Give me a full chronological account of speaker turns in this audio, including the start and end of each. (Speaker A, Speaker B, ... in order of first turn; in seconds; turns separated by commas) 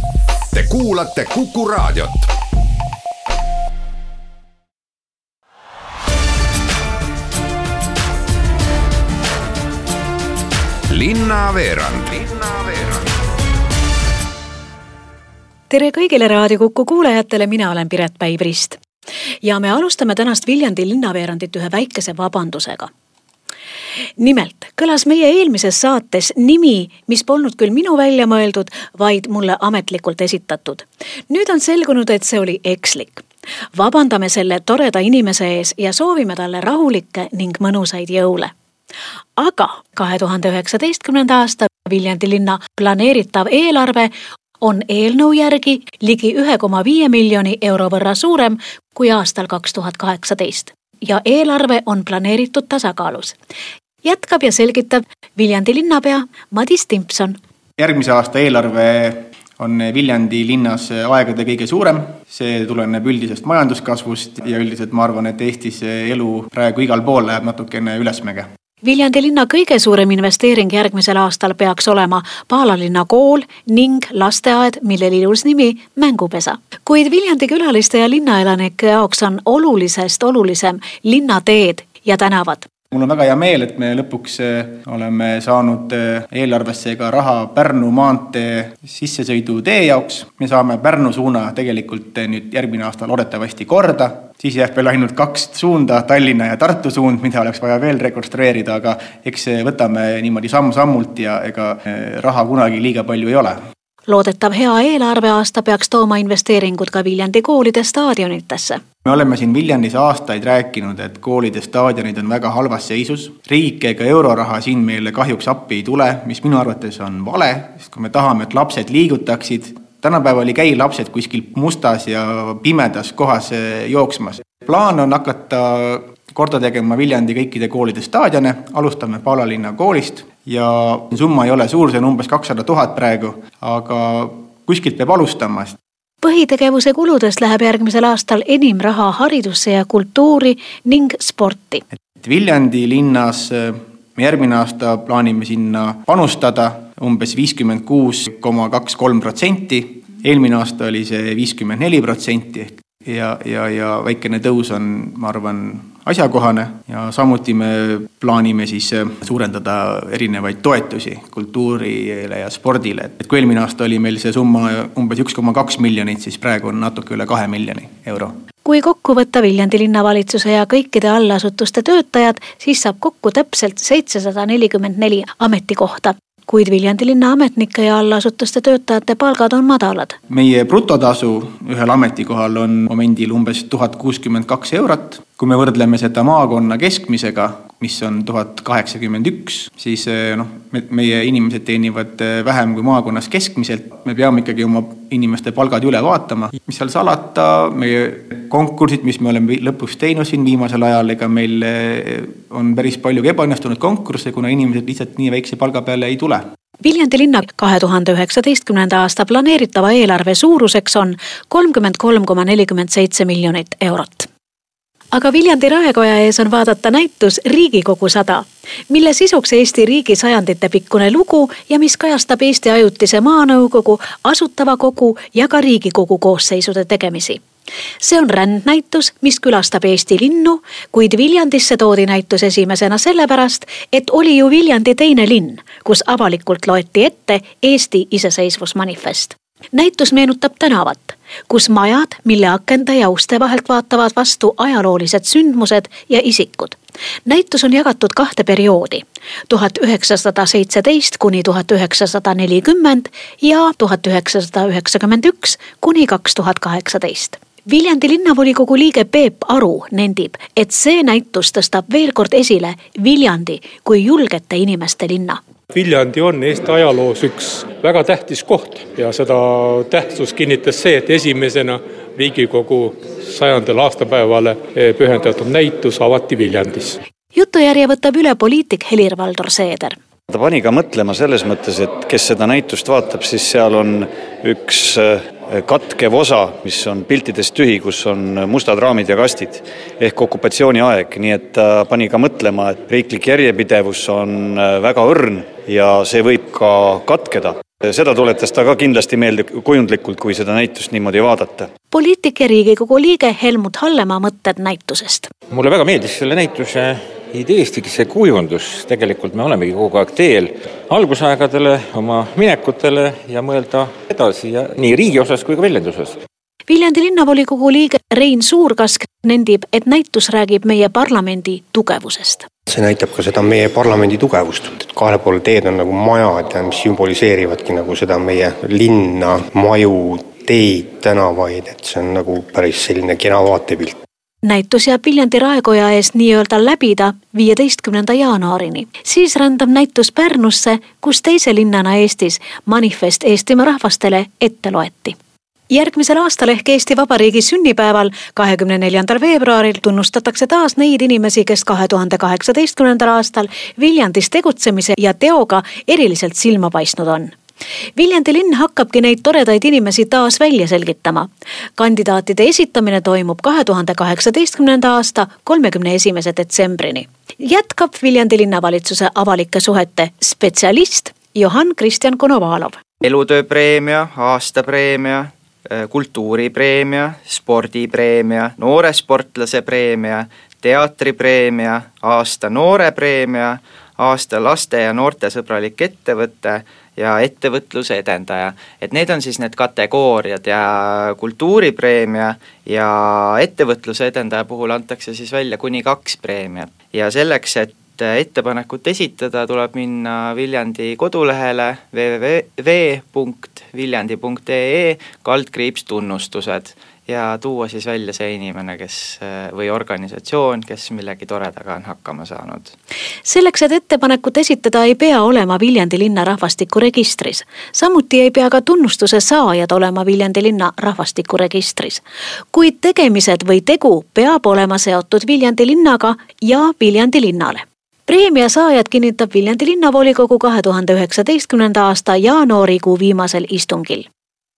Speaker A: 0.5-2.3, Speaker A: 10.9-13.0, Speaker B: 15.7-18.8, Speaker B: 19.4-22.9, Speaker B: 24.2-38.5, Speaker B: 39.4-53.4, Speaker B: 54.0-57.4, Speaker C: 57.8-68.4, Speaker B: 68.8-82.6, Speaker C: 82.9-103.6, Speaker B: 104.1-108.8, Speaker C: 109.0-135.7, Speaker B: 136.2-141.8, Speaker C: 142.2-168.3, Speaker B: 168.6-180.2, Speaker C: 180.3-206.4, Speaker B: 206.8-214.3, Speaker B: 215.1-227.4, Speaker B: 228.0-265.4, Speaker D: 265.7-277.0, Speaker B: 277.3-279.9, Speaker E: 280.3-301.7, Speaker B: 301.9-305.3, Speaker F: 305.5-316.2, Speaker B: 316.7-322.5, Speaker G: 322.7-334.0, Speaker B: 334.4-345.1, Speaker B: 345.7-357.3, Speaker B: 357.9-372.8, Speaker H: 373.0-412.7, Speaker B: 413.2-434.1